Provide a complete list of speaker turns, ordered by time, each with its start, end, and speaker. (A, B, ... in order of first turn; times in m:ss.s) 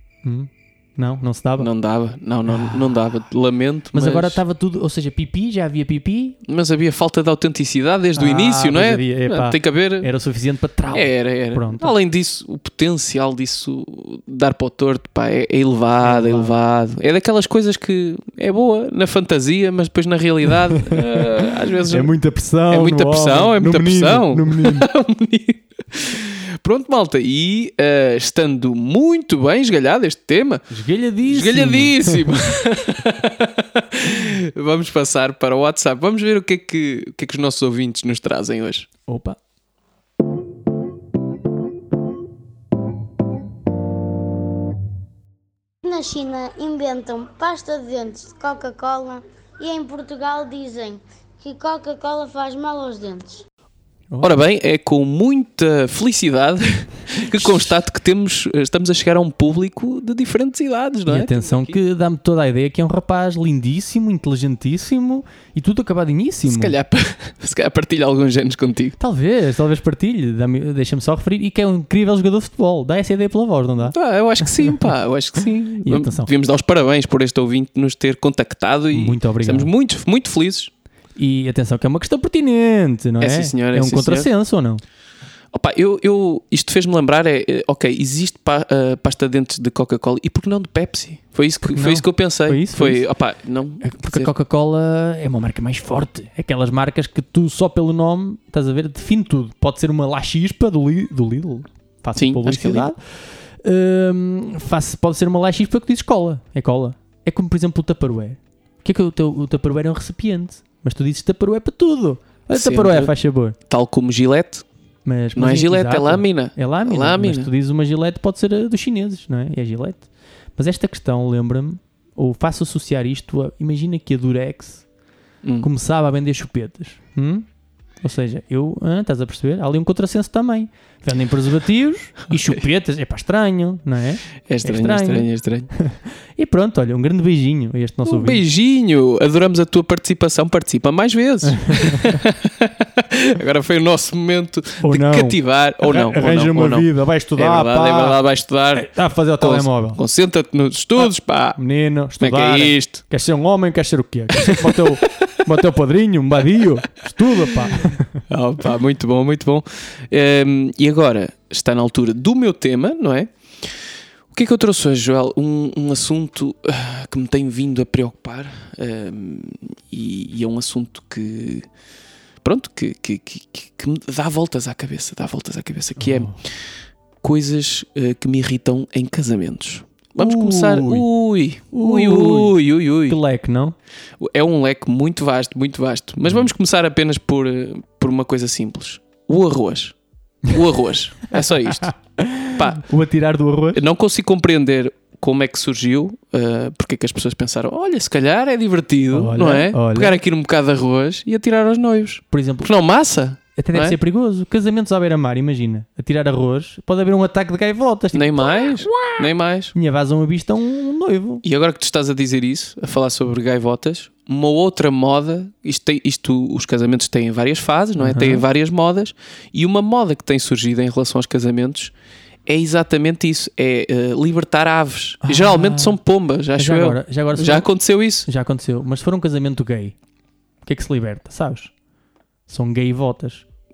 0:00.2-0:01.7 A
0:01.6-0:04.4 B
0:02.4-0:03.0 A
0:03.9-0:06.4 A
0:06.4-0:10.1 B
0:08.2-0:11.9 A
0:10.9-0:22.1 B
0:16.0-0:16.5 A
0:20.7-0:24.9 A
0:22.7-0:30.6 B
0:30.7-0:32.3 A
0:31.2-0:38.9 B
0:39.1-0:39.4 A
0:45.8-0:53.4 C
0:54.1-0:54.4 A
0:54.2-1:01.8 B
1:01.1-1:06.8 A
1:06.4-1:09.0 B
1:09.0-1:14.9 A
1:13.8-1:20.7 B
1:15.8-1:16.3 A
1:18.9-1:19.7 A
1:21.2-1:24.8 A
1:23.2-1:24.3 B
1:25.5-1:34.3 B
1:31.6-1:33.0 A
1:33.8-1:53.6 A
1:42.2-1:42.9 B
1:52.5-1:53.1 B
1:53.7-1:54.6 B
1:55.0-2:04.8 A
1:55.3-1:57.5 B
2:05.6-2:07.4 A
2:08.0-2:18.4 A
2:14.5-2:15.7 B
2:18.0-2:31.6 B
2:21.4-2:22.2 A
2:24.8-2:28.2 A
2:28.7-2:30.0 A
2:31.0-2:38.2 A
2:32.2-2:33.0 B
2:34.4-2:35.3 B
2:38.3-2:43.7 B
2:44.3-2:51.6 B
2:52.4-2:56.5 B
2:56.0-2:56.4 A
2:57.2-3:03.2 B
3:00.2-3:01.1 A
3:01.7-3:03.8 A
3:04.2-3:10.0 B
3:10.5-3:11.9 B
3:11.9-3:13.8 A
3:12.5-3:12.8 B
3:13.7-3:24.0 B
3:19.1-3:20.2 A
3:22.3-3:22.7 A
3:23.6-3:29.2 A
3:28.1-3:29.7 B
3:29.7-3:31.4 A
3:31.4-3:41.9 B
3:38.0-3:38.4 A
3:42.4-3:48.3 B
3:45.2-3:46.0 A
3:46.6-3:47.7 A
3:48.2-3:50.0 A
3:50.6-3:51.7 A
3:52.5-3:53.4 A